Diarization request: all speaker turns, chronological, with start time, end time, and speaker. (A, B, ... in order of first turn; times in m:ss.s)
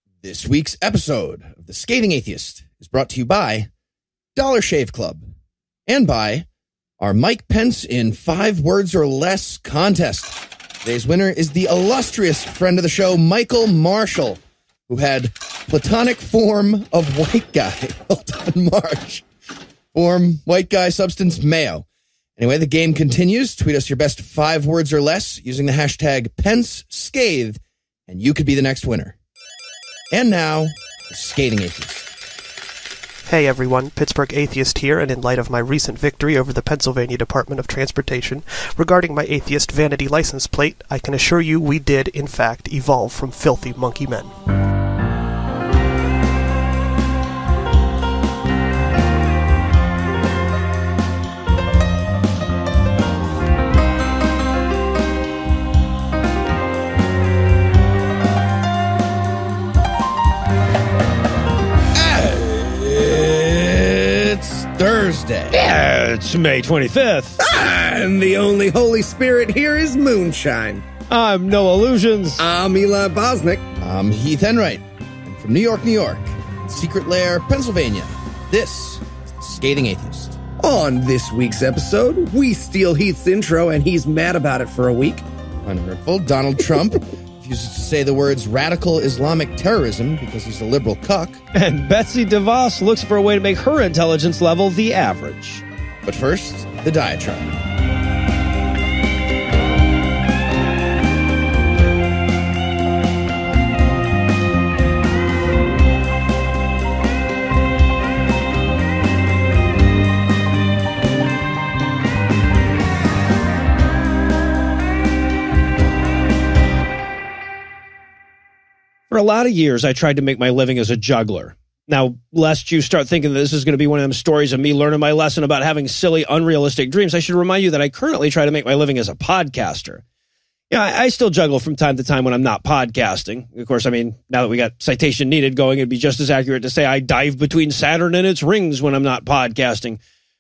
0:00.2-0:03.7 A
0:04.4-0:05.2 A
0:05.9-0:06.5 A
0:07.0-0:19.2 A
0:19.9-0:21.8 A
0:22.4-0:29.2 A
0:30.1-0:32.1 A
0:33.3-0:44.4 B
1:01.9-1:05.6 A
1:05.5-1:07.4 C
1:07.4-1:10.8 D
1:11.1-1:12.4 C
1:12.4-1:13.6 D
1:13.8-1:20.4 A
1:20.6-1:25.2 D
1:25.6-1:31.4 A
1:31.5-1:35.6 C
1:36.0-1:37.6 A
1:59.1-2:10.0 C
2:10.7-2:20.0 C